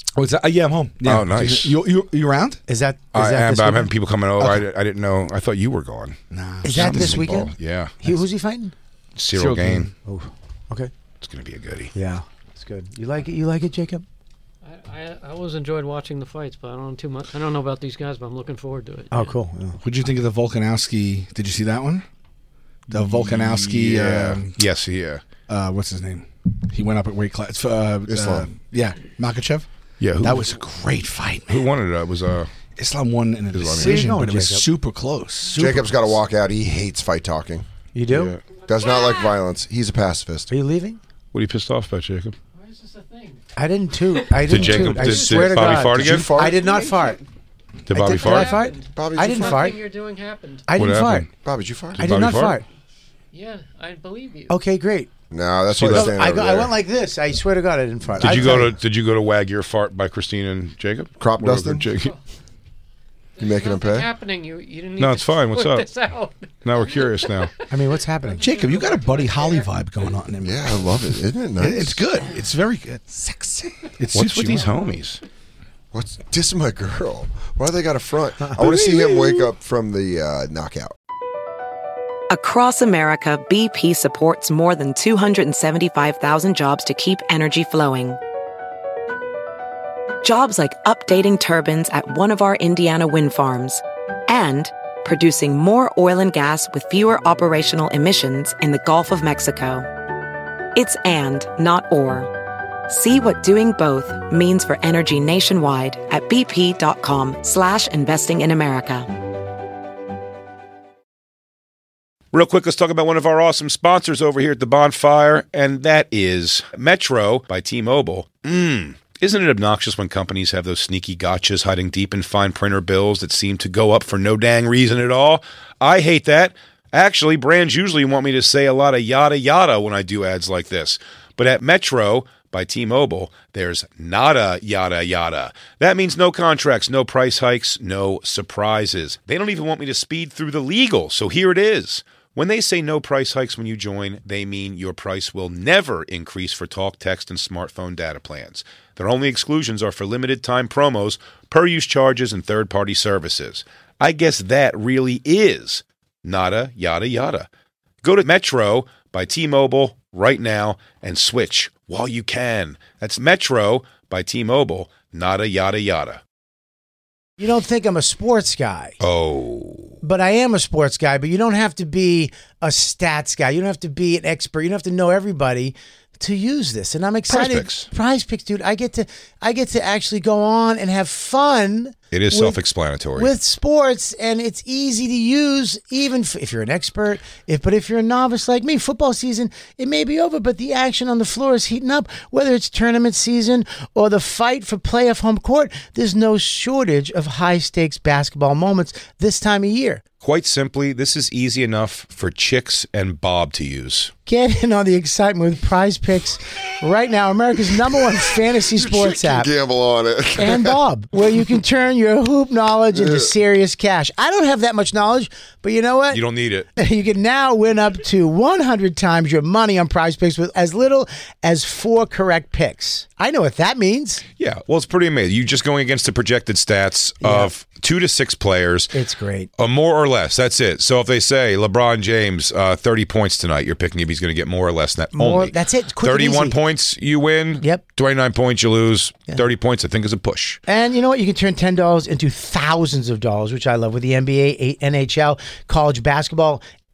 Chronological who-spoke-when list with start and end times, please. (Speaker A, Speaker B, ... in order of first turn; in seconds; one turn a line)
Speaker A: 0.1-2.6
Speaker B: 1.0-1.7
Speaker C: 2.7-3.9
Speaker B: 3.1-6.2
Speaker A: 6.3-7.3
Speaker C: 6.6-8.7
Speaker B: 6.7-8.0
Speaker B: 9.2-9.9
Speaker A: 9.3-9.9
Speaker C: 10.0-10.9
Speaker B: 11.2-11.9
Speaker C: 11.9-14.0
Speaker D: 14.6-19.3
Speaker C: 19.1-19.8
Speaker A: 19.8-22.0
Speaker A: 22.9-24.5
Speaker B: 23.0-25.2
Speaker A: 25.5-29.7
Speaker E: 28.1-28.5
Speaker B: 30.0-30.6
Speaker A: 30.2-31.7
Speaker B: 31.5-32.5
Speaker A: 32.8-36.2
Speaker B: 33.5-34.1
Speaker C: 33.8-34.7
Speaker E: 35.5-37.6
Speaker C: 37.9-38.3
Speaker B: 38.1-38.4
Speaker E: 38.7-40.5
Speaker C: 40.5-41.0
Speaker B: 41.3-42.3
Speaker D: 42.5-43.4
Speaker C: 43.5-47.2
Speaker D: 44.1-45.9
Speaker B: 44.5-46.3
Speaker E: 45.9-46.7
Speaker B: 47.9-48.5
Speaker C: 47.9-49.8
Speaker D: 48.1-50.7
Speaker E: 48.9-49.7
Speaker C: 50.7-51.3
Speaker B: 50.8-51.3
Speaker E: 51.4-52.0
Speaker B: 52.0-52.6
Speaker C: 52.0-52.6
Speaker D: 53.3-54.6
Speaker C: 54.5-55.1
Speaker E: 55.3-56.7
Speaker B: 55.7-56.2
Speaker C: 55.9-58.7
Speaker B: 58.2-62.1
Speaker E: 61.2-61.8
Speaker D: 63.4-67.5
Speaker E: 63.4-64.1
Speaker B: 65.0-65.9
Speaker B: 66.6-67.5
Speaker C: 67.7-68.5
Speaker D: 68.2-69.7
Speaker A: 68.4-74.8
Speaker E: 70.4-72.0
Speaker B: 74.1-75.2
Speaker E: 75.9-80.9
Speaker F: 82.3-88.2
Speaker F: 90.2-99.9
Speaker F: 100.7-102.3
Speaker F: 102.9-109.1
Speaker B: 112.3-157.5
Speaker B: 158.0-166.2
Speaker C: 167.4-169.0
Speaker B: 169.0-170.0
Speaker C: 170.0-182.6
Speaker B: 177.3-177.9
Speaker B: 182.1-183.3
Speaker C: 183.2-200.0
Speaker B: 200.2-204.1
Speaker C: 204.2-209.5
Speaker E: 208.7-210.8
Speaker C: 210.4-216.2
Speaker E: 212.9-213.3
Speaker B: 216.1-216.7
Speaker C: 216.8-224.2
Speaker B: 224.4-228.9
Speaker C: 227.2-227.5
Speaker C: 228.9-229.5
Speaker B: 229.6-240.6
Speaker C: 235.1-236.6
Speaker C: 237.6-237.8
Speaker C: 240.7-246.6